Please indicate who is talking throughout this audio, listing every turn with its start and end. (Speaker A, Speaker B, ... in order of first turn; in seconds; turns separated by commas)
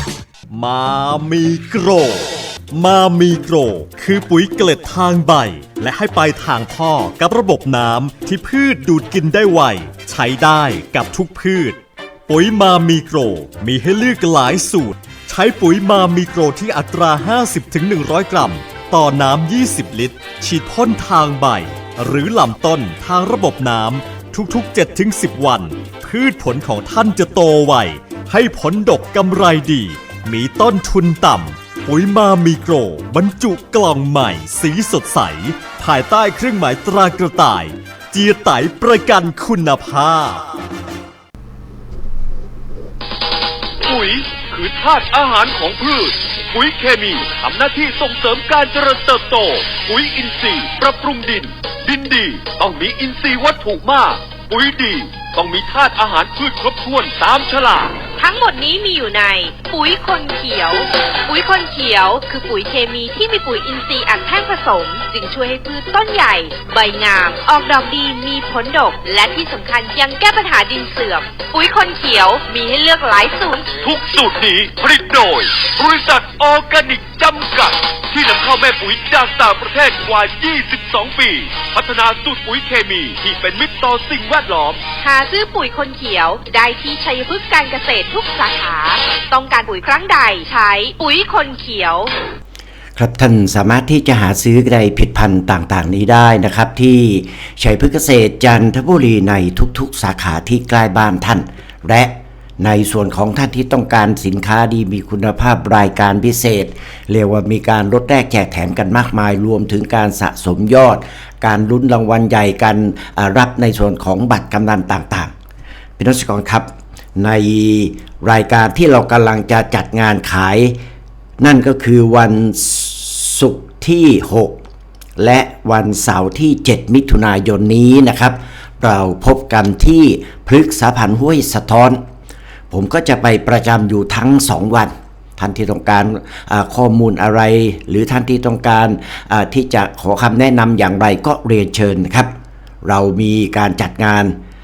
Speaker A: 0.5-40.5, Speaker B: 43.8-58.0, Speaker C: 58.2-73.7, Speaker B: 73.8-84.8, Speaker C: 85.0-92.1, Speaker D: 93.0-115.3, Speaker D: 116.0-120.8, Speaker D: 121.4-124.6, Speaker D: 125.2-132.0, Speaker D: 132.7-144.4